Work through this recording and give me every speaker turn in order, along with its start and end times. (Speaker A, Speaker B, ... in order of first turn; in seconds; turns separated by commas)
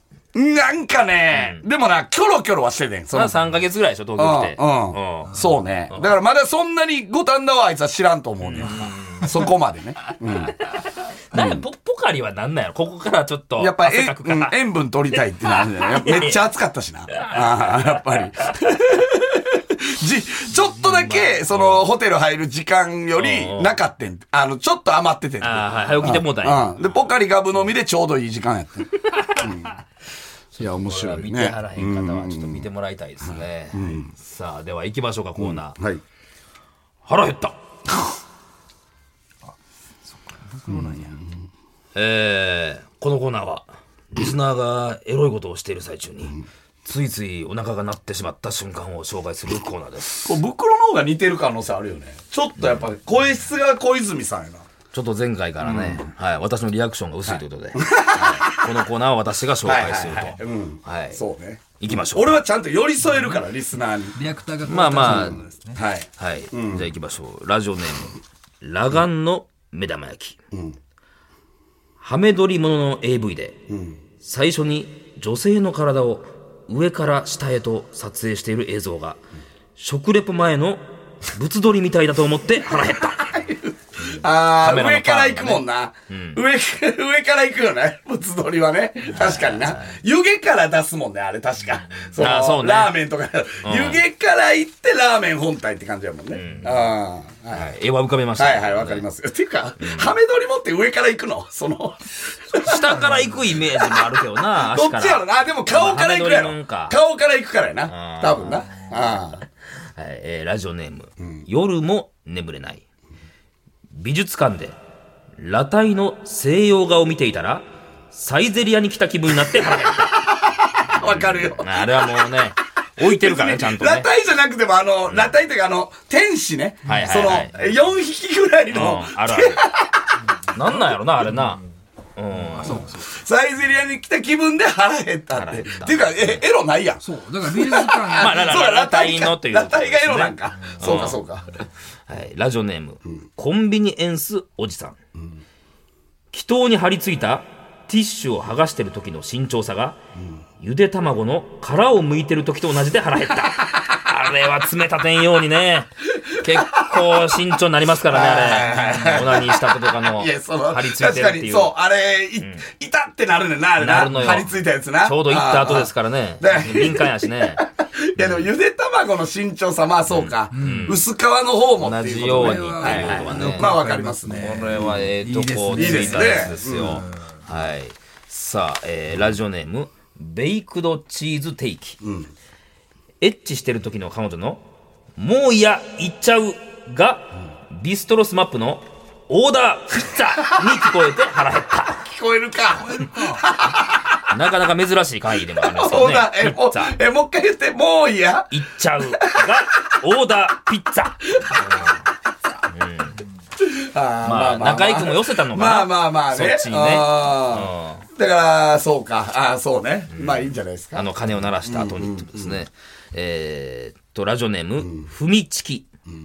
Speaker A: 0.3-3.4, Speaker B: 1.3-1.6, Speaker B: 3.1-5.4, Speaker A: 4.2-10.6, Speaker B: 8.4-9.3, Speaker B: 11.3-14.5, Speaker A: 11.3-11.6, Speaker A: 13.6-29.8, Speaker B: 15.7-16.4, Speaker B: 17.1-17.4, Speaker B: 20.9-21.9, Speaker B: 23.1-23.8, Speaker B: 25.4-27.1, Speaker B: 29.2-29.5, Speaker B: 30.5-35.8, Speaker A: 30.6-32.6, Speaker A: 33.2-34.1, Speaker A: 35.4-36.0, Speaker B: 37.0-37.6, Speaker C: 40.1-41.2, Speaker A: 40.7-41.3, Speaker B: 41.9-50.3, Speaker A: 50.2-54.6, Speaker B: 54.9-61.2, Speaker A: 55.6-56.1, Speaker A: 57.3-58.7, Speaker A: 59.6-64.2, Speaker B: 61.8-62.4, Speaker C: 64.1-65.8, Speaker B: 64.7-65.4, Speaker A: 65.0-66.9, Speaker B: 66.2-70.4, Speaker A: 70.5-70.8, Speaker B: 72.0-73.6, Speaker A: 73.7-74.0, Speaker B: 74.2-79.2, Speaker B: 79.8-83.5, Speaker A: 83.2-97.7, Speaker B: 84.6-86.4, Speaker B: 89.1-90.0, Speaker B: 92.2-93.0, Speaker B: 93.6-94.0, Speaker B: 96.3-96.9, Speaker B: 97.5-99.0, Speaker A: 98.3-109.4, Speaker B: 99.8-100.1, Speaker B: 102.5-107.0, Speaker B: 107.9-108.8, Speaker B: 109.9-112.8, Speaker B: 113.9-114.8, Speaker B: 115.4-120.2, Speaker A: 119.5-122.3, Speaker B: 120.9-124.1, Speaker A: 123.0-130.2, Speaker C: 126.8-127.1, Speaker B: 126.8-127.6, Speaker B: 128.7-129.6, Speaker B: 130.5-131.6, Speaker B: 132.2-132.8, Speaker C: 132.4-133.1, Speaker A: 132.7-141.5, Speaker B: 135.3-136.4, Speaker C: 137.0-138.6, Speaker B: 138.2-141.2, Speaker B: 142.1-145.0, Speaker B: 146.3-150.0, Speaker B: 150.6-161.7, Speaker A: 156.2-157.3, Speaker A: 158.0-175.1, Speaker B: 163.8-167.6, Speaker B: 168.2-168.5, Speaker B: 170.1-171.0, Speaker C: 170.5-171.0, Speaker B: 171.8-182.0, Speaker C: 172.2-177.1, Speaker A: 175.7-177.0, Speaker A: 182.0-182.3, Speaker B: 183.2-184.6, Speaker B: 185.2-192.0, Speaker A: 192.0-194.2, Speaker C: 192.7-193.4, Speaker B: 194.3-197.0, Speaker A: 195.5-199.9, Speaker B: 198.5-202.0, Speaker A: 201.4-201.9, Speaker B: 202.7-203.2, Speaker A: 203.6-211.1, Speaker B: 204.2-208.0, Speaker B: 210.1-215.9, Speaker A: 211.6-212.6